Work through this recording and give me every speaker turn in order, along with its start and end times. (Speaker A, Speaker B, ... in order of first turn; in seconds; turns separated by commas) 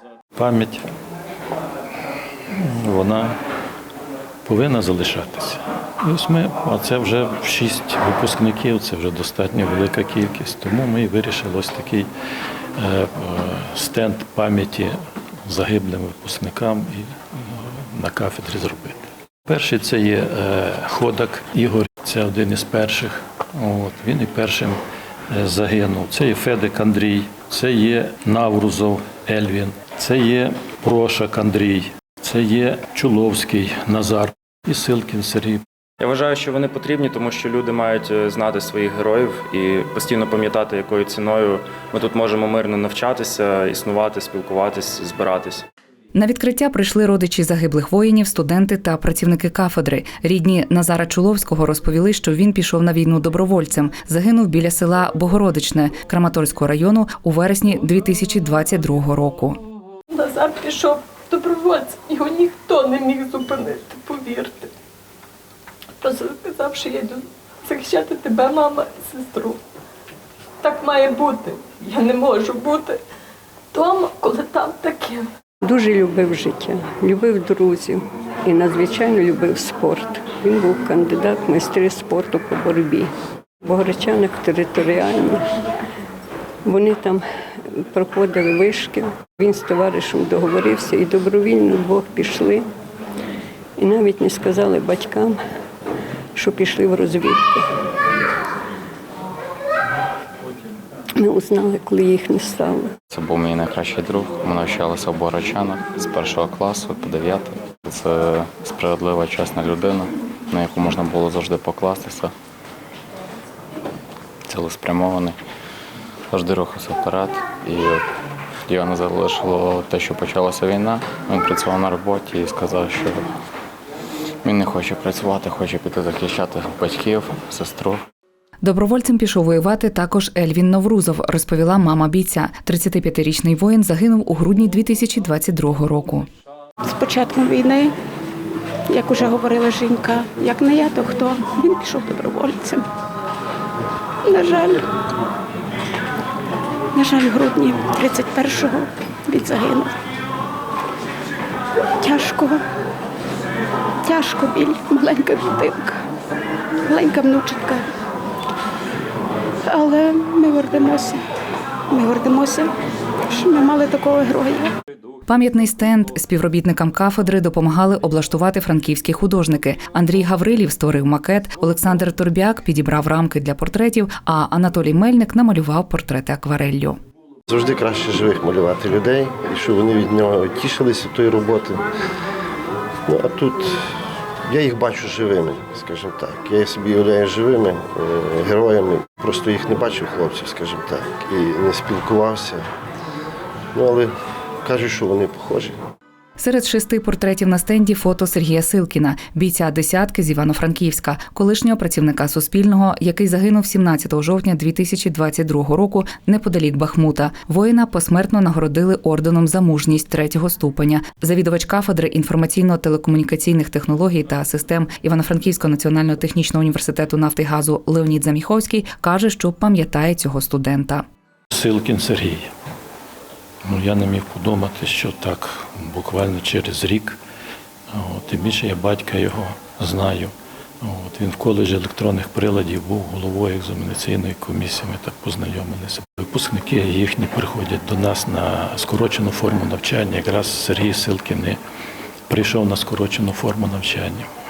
Speaker A: 0.3-0.8, Speaker A: 2.5-3.3, Speaker A: 4.4-12.1, Speaker A: 12.8-14.9, Speaker A: 15.5-24.8, Speaker A: 25.3-35.6, Speaker B: 36.0-45.6, Speaker C: 46.1-59.6, Speaker D: 60.1-64.7, Speaker D: 66.0-69.6, Speaker D: 70.6-73.0, Speaker D: 73.7-75.3, Speaker E: 75.6-83.1, Speaker E: 83.6-85.4, Speaker E: 86.6-87.2, Speaker E: 87.8-92.7, Speaker E: 93.8-95.4, Speaker E: 96.3-97.7, Speaker E: 101.2-102.9, Speaker F: 103.1-112.3, Speaker F: 114.5-115.3, Speaker F: 116.3-118.0, Speaker F: 118.7-123.3, Speaker F: 124.4-128.0, Speaker C: 128.6-136.3, Speaker G: 136.8-137.9, Speaker G: 138.9-142.9, Speaker G: 144.2-144.9, Speaker G: 146.9-149.9, Speaker G: 152.0-152.6, Speaker G: 154.0-156.0, Speaker G: 156.8-157.9, Speaker G: 159.6-161.2, Speaker G: 161.9-162.7, Speaker G: 163.3-164.7, Speaker C: 165.3-177.0, Speaker H: 177.5-181.8, Speaker H: 183.1-183.8, Speaker H: 184.4-192.6, Speaker H: 193.7-194.1, Speaker H: 194.6-195.8, Speaker C: 196.4-221.0, Speaker A: 221.5-222.5, Speaker A: 223.6-227.2, Speaker A: 227.9-241.6, Speaker A: 242.3-244.3